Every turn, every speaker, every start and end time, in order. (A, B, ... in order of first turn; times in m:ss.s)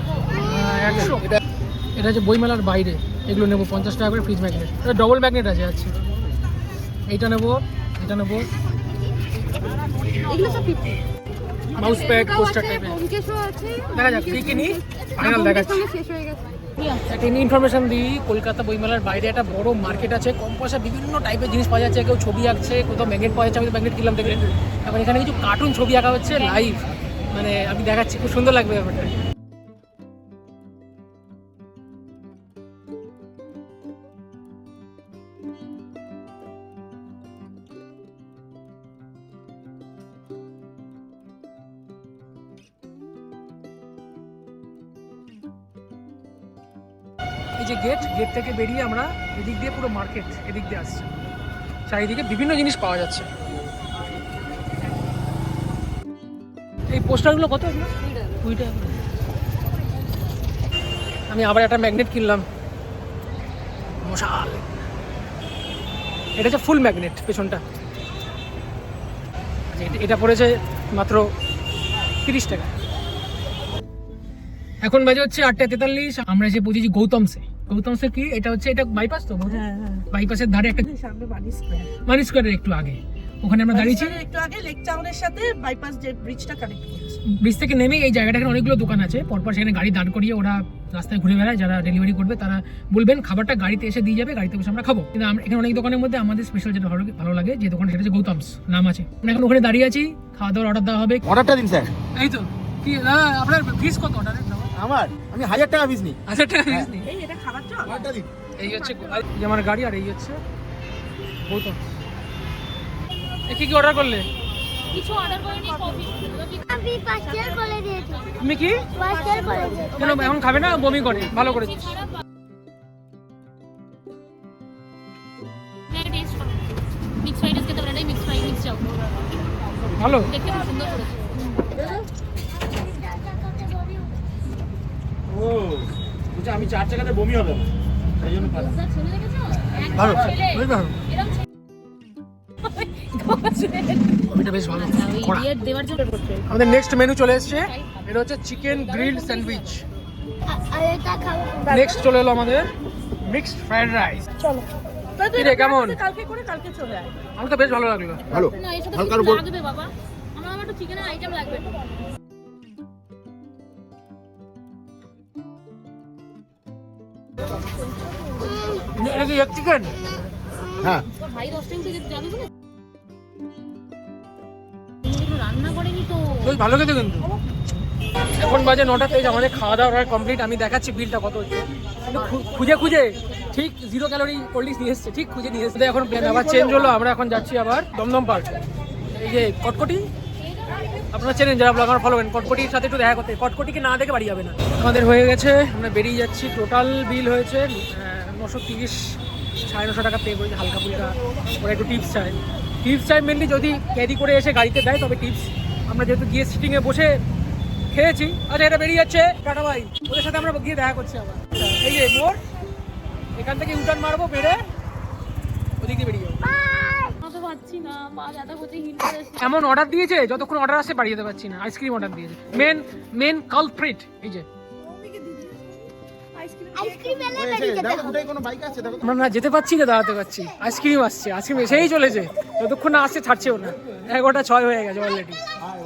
0:00.4-0:01.2 A
0:01.0-0:01.4 B
0:02.0-0:05.9 A
0:07.1-0:08.5 A
0:10.3-0:11.0 C
0:11.8-0:13.0 A
0:11.8-0:16.4 C
0:13.9-0:15.8 A
0:17.1-0:29.1 A
0:47.6-0:51.1 A
0:51.9-0:53.3 A
0:56.9-0:57.9 A
0:58.4-0:59.0 A
1:01.3-1:02.4 A
1:04.0-1:04.6 A
1:06.4-1:07.6 A
1:09.7-1:11.3 A
1:12.2-1:12.7 A
1:14.8-1:20.8 A
1:19.5-1:20.0 C
1:20.8-1:21.9 C
1:22.1-1:24.2 A
1:23.7-1:27.2 C
1:27.3-1:41.2 A
1:41.3-1:41.9 B
1:42.2-1:44.7 A
1:44.8-1:46.9 B
1:46.3-1:47.1 A
1:47.0-1:48.0 C
1:47.8-1:48.3 B
1:48.6-1:50.4 A
1:48.6-1:49.2 C
1:51.4-1:51.8 A
1:53.5-1:54.3 A
1:54.9-1:56.7 D
1:56.7-1:58.2 E
1:58.4-1:58.8 A
1:59.0-2:00.4 E
1:59.0-1:59.9 C
1:59.1-1:59.8 D
2:00.0-2:01.9 A
2:01.2-2:02.1 D
2:05.9-2:06.6 D
2:07.2-2:09.0 D
2:10.0-2:10.3 A
2:10.3-2:12.0 D
2:12.7-2:13.8 E
2:13.5-2:13.9 D
2:15.3-2:17.7 B
2:18.2-2:18.7 B
2:18.3-2:21.4 D
2:20.0-2:21.0 A
2:20.0-2:20.3 B
2:22.7-2:26.8 D
2:24.3-2:25.5 A
2:26.5-2:29.8 A
2:27.4-2:27.9 D
2:28.6-2:29.7 D
2:30.5-2:31.7 E
2:31.6-2:32.0 C
2:31.7-2:32.7 A
2:33.3-2:34.3 A
2:34.4-2:37.1 C
2:35.4-2:36.0 A
2:37.4-2:38.2 A
2:38.3-2:39.4 B
2:38.4-2:41.8 D
2:49.0-2:49.9 A
2:51.2-2:52.5 D
2:55.1-2:56.5 D
2:56.4-2:57.3 A
2:58.4-3:08.6 A
3:06.2-3:06.9 B
3:09.2-3:10.0 A
3:11.1-3:27.2 A
3:27.9-3:32.4 A
3:33.4-3:34.6 A
3:35.8-3:36.4 A
3:36.4-3:37.2 E
3:37.2-3:39.5 D
3:39.4-3:44.5 A
3:44.8-3:47.4 C
3:46.8-3:48.2 E
3:47.4-3:49.1 B
3:49.0-3:55.4 A